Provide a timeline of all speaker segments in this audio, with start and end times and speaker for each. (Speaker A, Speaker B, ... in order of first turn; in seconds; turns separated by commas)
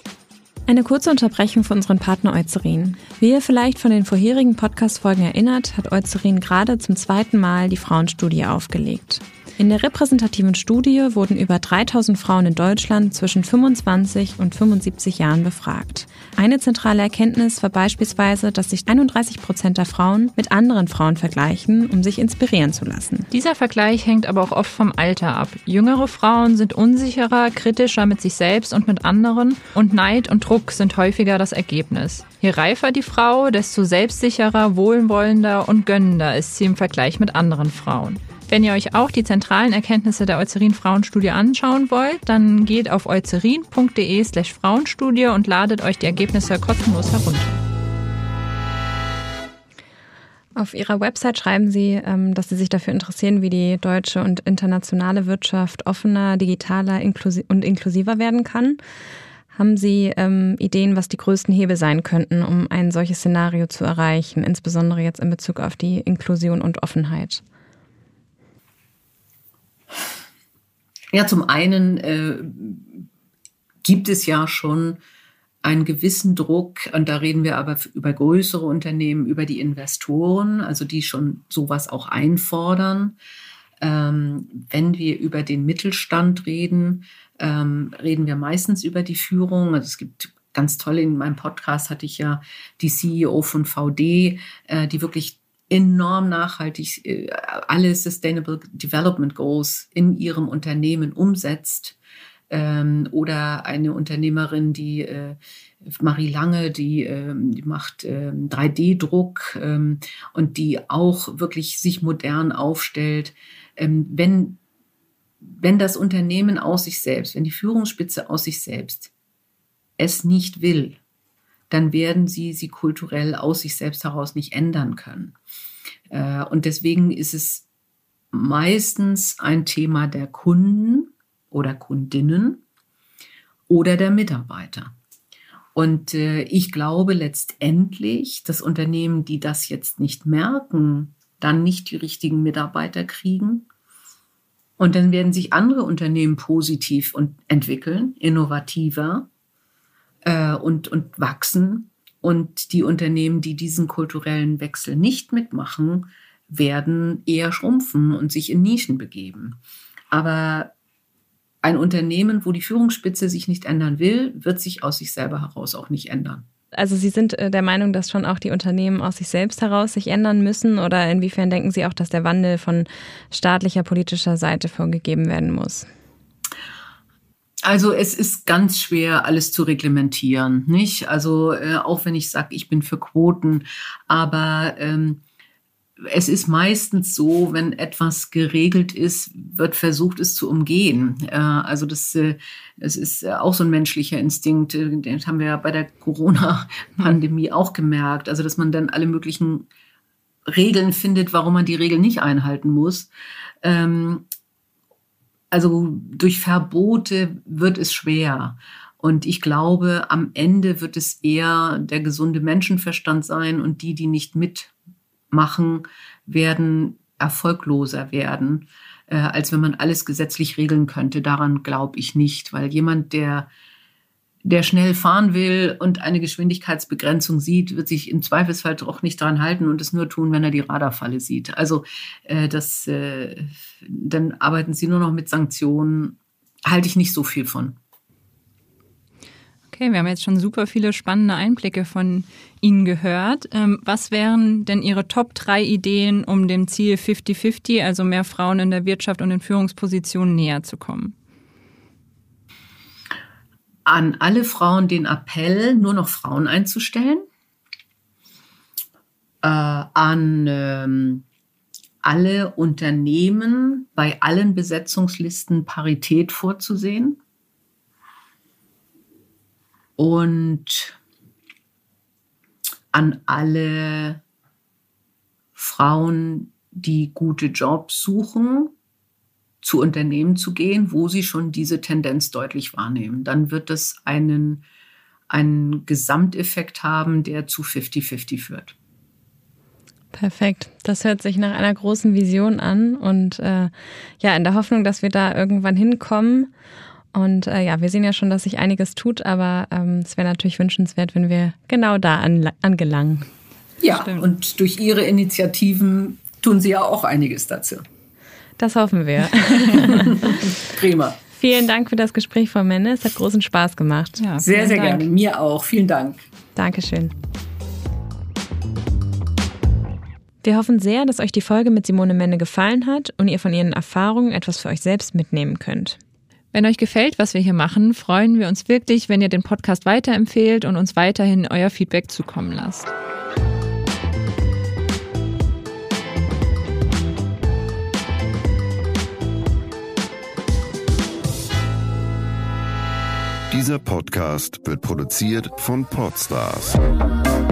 Speaker A: 0.7-23.3, Speaker B: 23.3-47.6, Speaker A: 50.6-58.8, Speaker A: 59.5-67.4, Speaker C: 71.1-73.1, Speaker C: 73.8-75.0, Speaker C: 75.6-83.2, Speaker C: 83.8-102.0, Speaker C: 102.5-114.6, Speaker C: 115.4-119.1, Speaker C: 120.0-121.0, Speaker C: 121.7-125.3, Speaker C: 126.1-127.6, Speaker C: 128.3-132.6, Speaker C: 133.7-134.9, Speaker C: 135.8-143.7, Speaker C: 144.8-149.3, Speaker C: 150.2-159.6, Speaker C: 160.1-160.7, Speaker C: 161.6-166.4, Speaker A: 166.7-175.9, Speaker C: 177.6-185.2, Speaker C: 186.0-199.7, Speaker C: 200.5-203.1, Speaker C: 203.6-204.2, Speaker C: 205.5-214.7, Speaker C: 215.3-223.5, Speaker C: 224.4-237.8, Speaker B: 239.7-251.1, Speaker C: 253.9-257.2, Speaker C: 259.4-261.2, Speaker C: 262.0-267.2, Speaker C: 270.0-271.0, Speaker C: 272.9-274.2, Speaker C: 275.6-278.7, Speaker C: 279.6-284.6, Speaker C: 285.3-288.8, Speaker A: 290.1-296.5, Speaker A: 297.1-303.3, Speaker C: 303.8-307.9, Speaker B: 304.0-304.3, Speaker A: 308.6-310.5, Speaker C: 309.5-311.2, Speaker A: 311.3-314.3, Speaker B: 314.2-315.1, Speaker C: 314.4-316.2, Speaker A: 316.6-317.1, Speaker A: 320.4-326.0, Speaker B: 326.5-332.9, Speaker D: 343.5-346.8